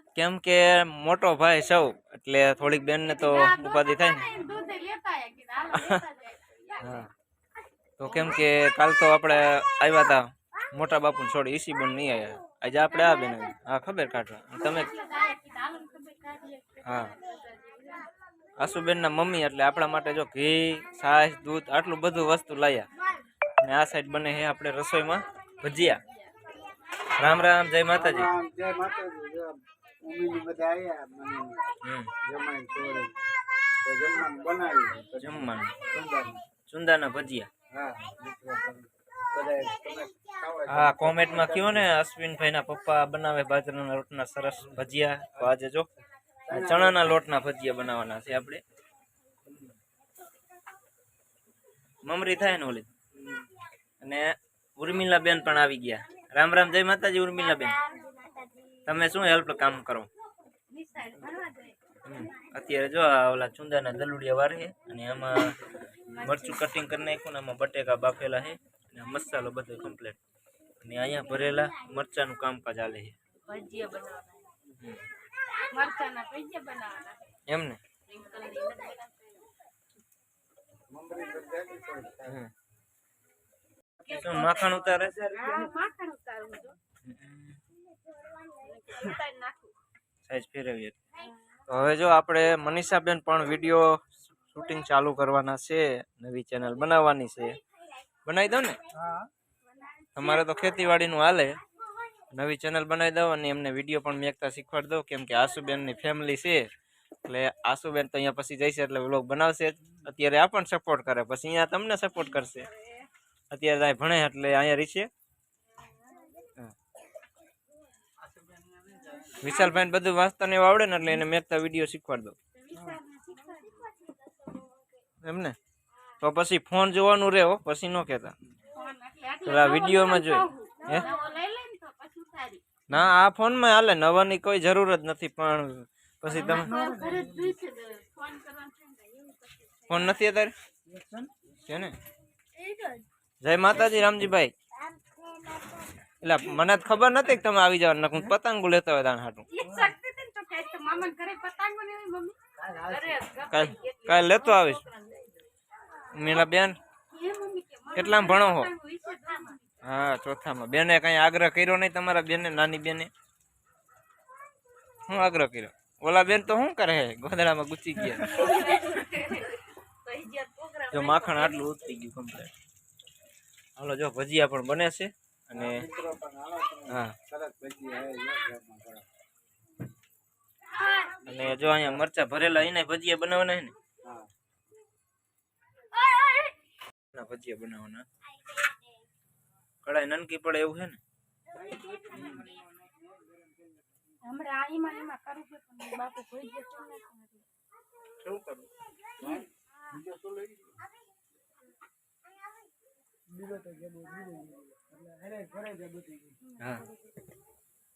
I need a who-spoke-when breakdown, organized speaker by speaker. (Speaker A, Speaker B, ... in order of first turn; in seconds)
Speaker A: 0.1-4.4, 6.8-7.1, 8.0-14.9, 16.8-17.1, 18.6-22.9, 23.6-26.0, 27.2-28.3, 31.8-32.1, 35.1-35.8, 36.6-37.5, 40.7-45.9, 46.5-48.6, 52.0-52.9, 54.0-57.8, 58.8-60.1, 62.0-65.6, 66.2-70.2, 70.8-73.2, 77.5-77.8, 84.0-85.2, 87.0-87.6, 90.2-91.0, 91.7-97.6, 98.2-98.8, 100.1-101.6, 102.3-106.7, 107.2-112.7, 113.5-115.1, 119.4-122.3, 125.2-125.5, 126.2-128.3, 129.4-131.1, 132.9-136.8, 139.9-140.5, 141.6-142.0, 143.4-144.5, 146.2-149.5, 153.5-154.8, 156.1-156.8, 157.9-158.7, 159.8-163.1, 165.1-168.5, 170.9-172.5, 173.8-175.8, 176.9-177.2, 181.2-183.7, 187.1-188.0, 189.8-191.0, 192.2-192.4, 198.3-198.5, 206.6-206.8
Speaker B: 3.1-6.9, 14.6-18.1, 60.7-61.8, 66.2-66.6, 73.5-74.5, 75.6-77.2, 78.1-79.5, 84.0-86.8, 88.5-89.7, 122.6-124.0, 128.7-132.6, 136.3-140.2, 142.6-143.0, 149.5-155.3, 157.1-159.7, 168.3-171.6, 180.8-181.2, 185.9-186.5, 194.2-197.4
Speaker C: 27.9-31.6, 32.2-33.2, 33.8-36.4, 37.7-41.8, 46.5-47.0, 53.2-53.5, 80.9-82.4, 85.2-85.7, 136.7-137.4, 140.9-141.3, 152.6-153.2, 175.5-179.0, 191.6-192.6, 199.2-200.6, 203.4-206.3